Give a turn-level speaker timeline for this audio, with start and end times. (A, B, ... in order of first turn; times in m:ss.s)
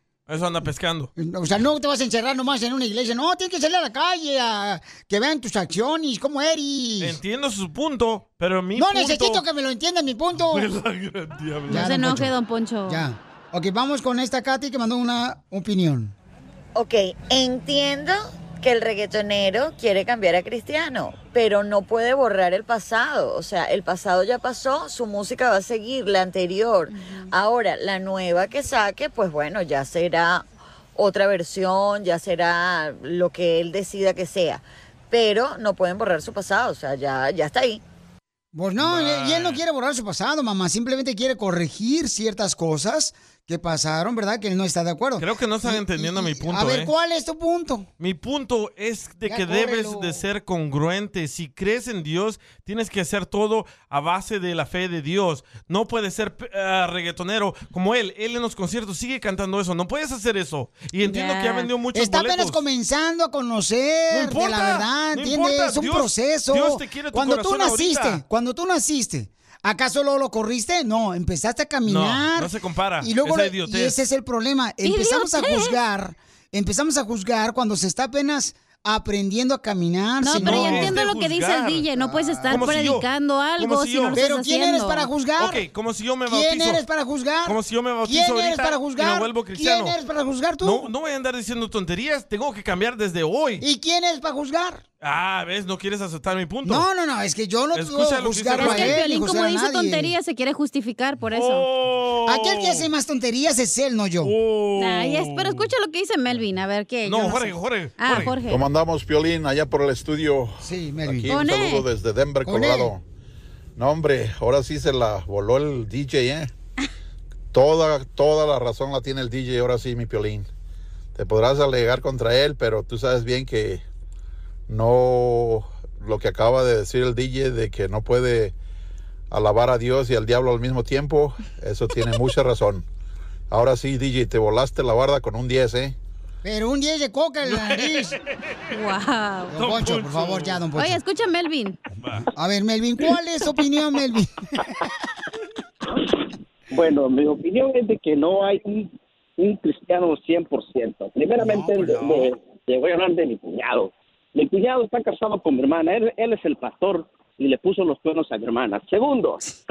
0:00.3-0:01.1 A
0:01.2-0:07.2 B
0:07.0-0:09.4 A
0:08.8-0:10.7 B
0:10.4-0:11.9 A
0:11.7-0:12.3 B
0:11.7-0:13.0 C
0:12.9-0:16.1 B
0:16.7-0:37.8 D
0:26.9-0:27.3 C
0:38.5-0:47.9 B
0:38.8-0:39.6 A
0:45.2-0:46.9 A
0:48.0-1:02.6 A
0:49.3-0:50.2 B
1:01.0-1:01.7 C
1:01.9-1:21.0 B
1:04.1-1:08.2 A
1:11.8-1:14.0 A
1:14.8-1:15.7 C
1:20.2-1:25.1 C
1:20.4-1:21.8 A
1:21.9-1:22.8 B
1:22.5-1:24.2 A
1:24.1-1:25.6 B
1:25.4-1:26.8 A
1:26.3-1:30.9 B
1:27.4-1:30.0 A
1:30.6-1:33.6 A
1:33.6-1:34.8 B
1:35.0-1:36.9 A
1:36.6-1:40.1 B
1:37.7-1:39.0 A
1:38.6-1:41.7 C
1:41.3-1:42.9 A
1:42.2-1:44.3 B
1:44.2-1:45.7 A
1:44.8-1:48.6 C
1:47.0-1:48.4 A
1:48.4-1:53.0 E
1:50.6-1:51.3 B
1:51.3-1:51.8 C
1:52.4-1:52.9 B
1:53.8-1:56.5 E
1:57.5-2:00.5 E
2:01.1-2:03.8 E
2:04.7-2:08.6 E
2:09.3-2:12.8 E
2:13.5-2:16.0 E
2:16.4-2:18.2 B
2:17.5-2:18.6 A
2:18.7-2:19.5 C
2:19.5-2:21.0 B
2:19.5-2:20.6 A
2:20.8-2:21.8 C
2:22.0-2:22.3 A
2:22.3-2:24.3 B
2:26.7-2:39.4 F
2:31.4-2:32.2 B